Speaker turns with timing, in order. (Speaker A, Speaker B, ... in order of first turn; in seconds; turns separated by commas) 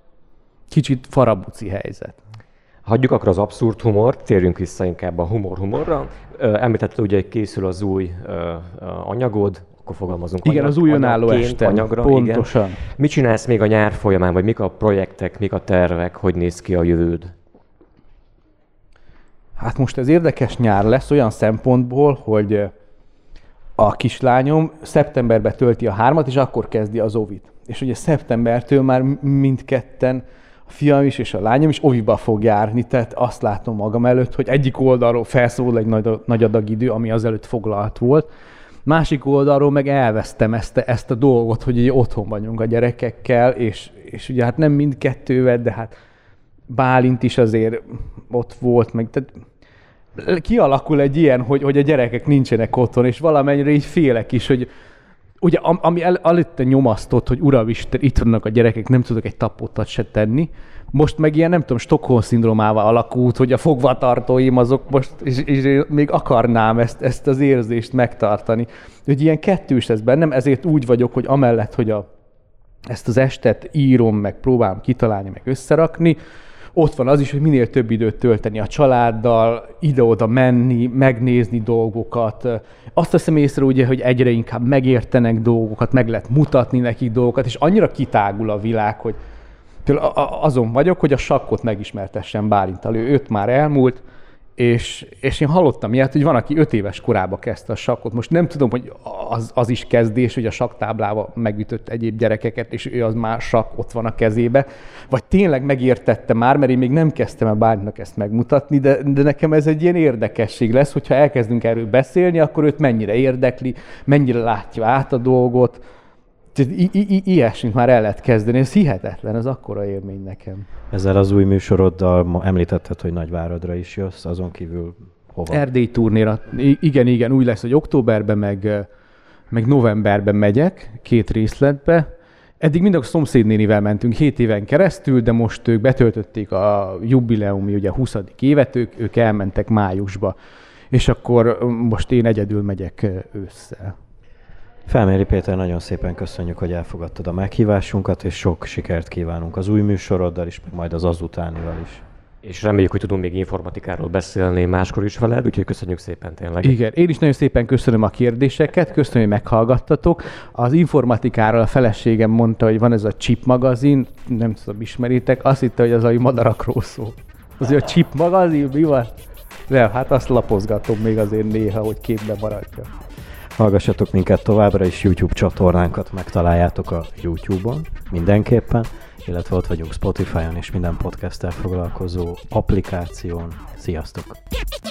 Speaker A: 0.7-2.2, Speaker B: 2.9-17.3, Speaker A: 10.4-12.8, Speaker A: 19.6-22.7, Speaker A: 23.8-38.3, Speaker A: 38.9-46.0, Speaker A: 46.7-49.4, Speaker A: 50.2-54.7, Speaker A: 55.4-72.0, Speaker A: 72.9-76.2, Speaker A: 76.8-89.2, Speaker A: 89.8-94.0, Speaker A: 94.6-115.8, Speaker A: 116.5-120.7, Speaker C: 120.9-125.6, Speaker A: 125.5-128.9, Speaker A: 129.5-132.1, Speaker A: 132.6-140.3, Speaker A: 140.9-144.0, Speaker C: 144.9-152.0, Speaker B: 152.4-156.8, Speaker A: 156.6-169.1, Speaker A: 169.7-172.9, Speaker C: 173.6-184.4